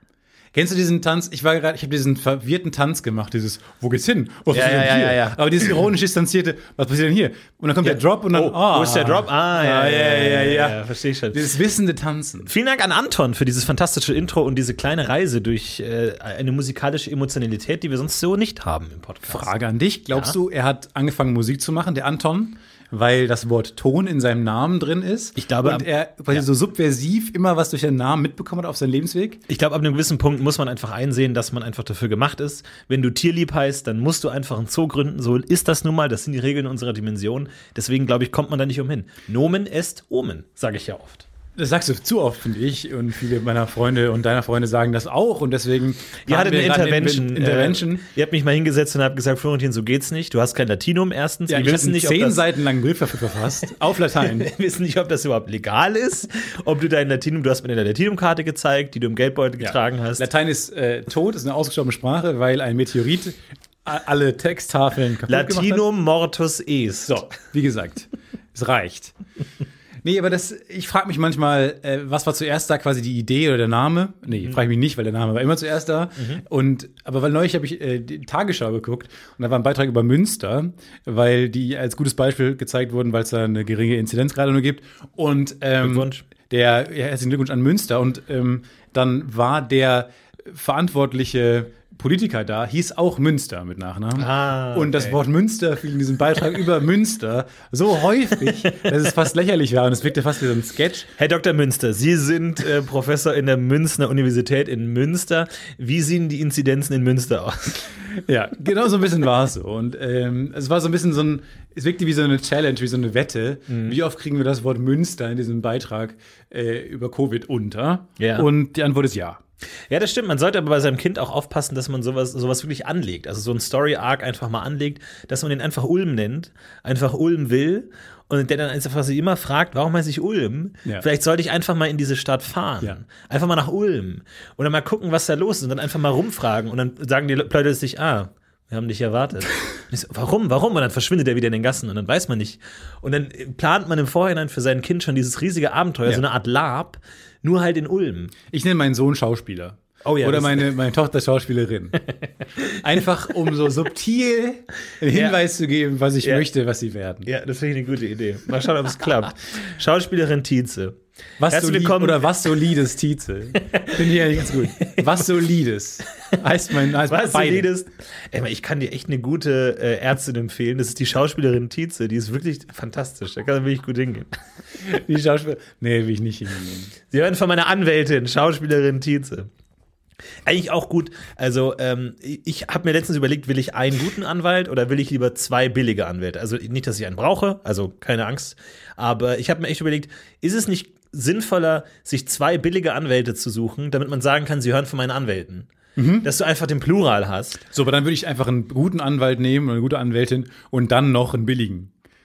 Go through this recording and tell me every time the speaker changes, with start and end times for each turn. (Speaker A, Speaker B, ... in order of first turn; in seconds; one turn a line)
Speaker A: 0.5-10.8
Speaker B: 4.5-5.8
Speaker B: 7.8-11.4
Speaker A: 11.3-12.5
Speaker B: 12.4-19.5
Speaker A: 19.3-29.4
Speaker B: 25.4-26.4
Speaker B: 29.5-41.3
Speaker A: 41.5-48.0
Speaker B: 46.2-52.4
Speaker A: 51.5-54.5
Speaker B: 54.1-60.2
Speaker A: 59.6-65.8
Speaker B: 65.3-67.2
Speaker A: 67.0-69.1
Speaker A: 70.0-101.1
Speaker B: 85.8-86.2
Speaker B: 94.2-95.2
Speaker B: 101.2-107.9
Speaker A: 108.1-119.4
Speaker B: 113.7-114.0
Speaker B: 118.2-118.5
Speaker B: 119.9-148.3
Speaker A: 148.5-152.0
Speaker B: 150.0-150.7
Speaker A: 152.8-157.3
Speaker B: 155.1-155.4
Speaker B: 157.2-161.0
Speaker A: 161.4-167.7
Speaker B: 161.5-162.3
Speaker B: 163.6-165.2
Speaker B: 167.0-174.3
Speaker A: 174.8-176.9
Speaker B: 177.1-179.5
Speaker B: 180.4-195.7
Speaker A: 195.9-196.3
Speaker B: 196.2-197.6
Speaker A: 197.7-201.9